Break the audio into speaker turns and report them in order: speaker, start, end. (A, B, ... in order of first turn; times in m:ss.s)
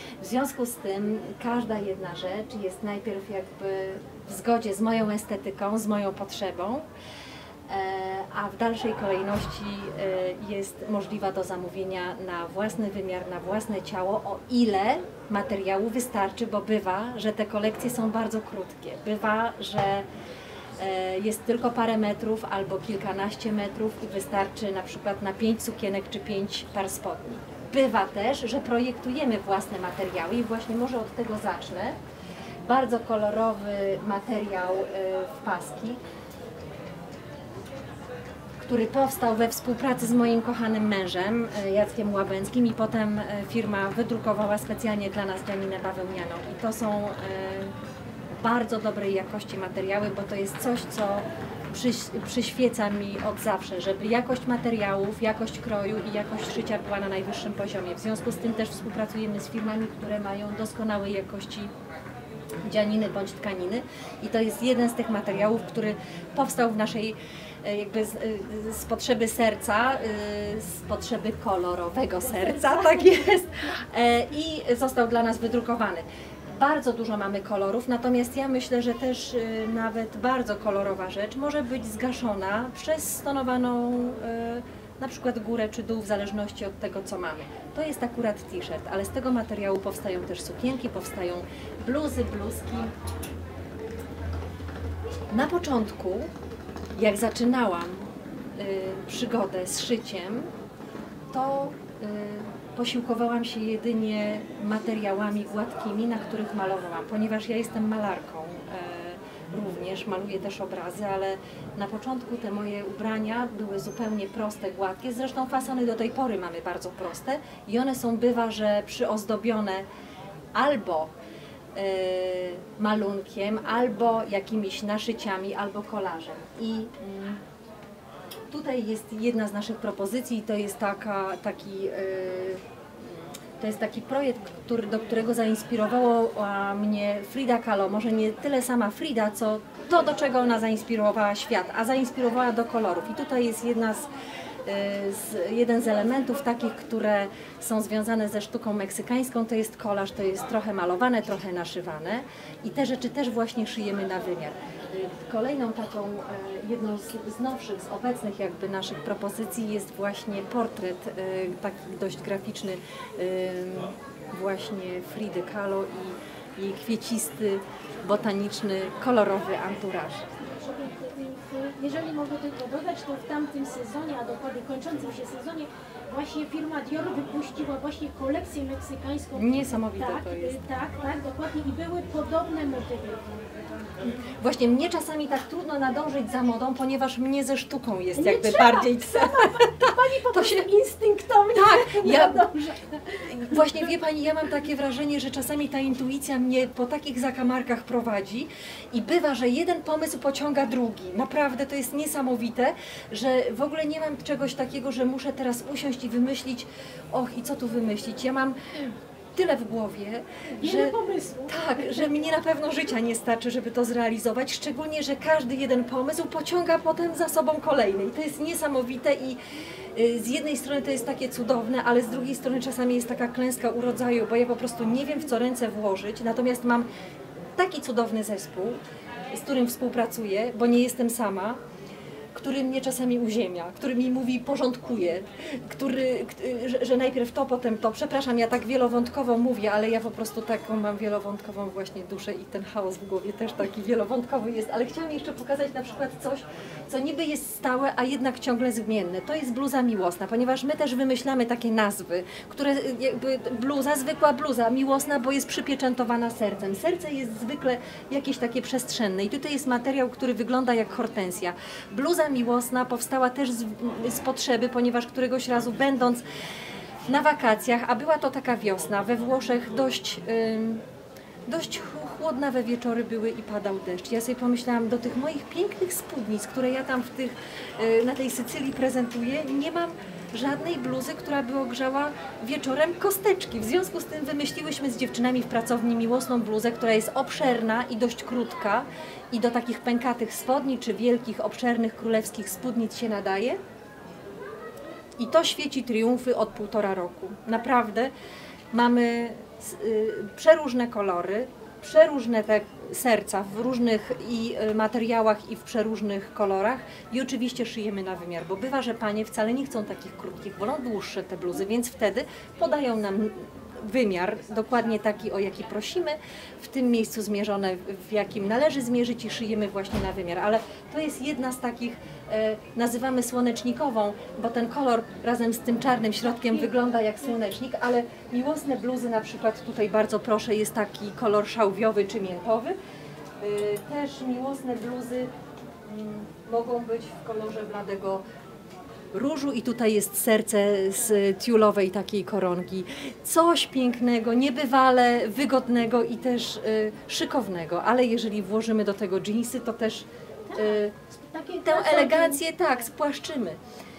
0:00.2-0:06.8 A
0:07.7-0:20.1 A
0:20.8-0:32.0 A
0:32.6-0:36.0 A
0:38.6-0:47.8 A
0:48.3-1:01.7 A
1:02.7-1:33.0 A
1:12.2-1:13.7 B
1:35.3-1:36.3 A
1:37.0-1:40.5 A
1:41.3-1:59.9 A
2:00.6-2:01.1 A
2:01.8-2:07.4 A
2:08.5-2:24.1 A
2:24.6-2:50.3 A
2:50.4-3:03.4 B
2:59.4-3:00.6 A
3:04.0-3:10.7 A
3:08.2-3:13.7 B
3:11.5-3:12.5 A
3:13.2-3:30.9 A
3:30.5-3:32.1 B
3:31.5-3:39.4 A
3:40.0-3:46.9 A
3:47.6-3:48.8 A
3:49.3-3:51.6 A
3:52.4-4:26.2 A
4:27.1-4:30.8 A
4:31.5-4:53.6 A
4:55.2-4:58.1 A
4:58.7-5:32.8 A
5:26.5-5:26.7 B
5:33.4-5:35.3 A
5:35.8-5:38.2 A
5:39.1-5:50.9 A
5:50.5-5:52.4 B
5:51.6-5:53.6 A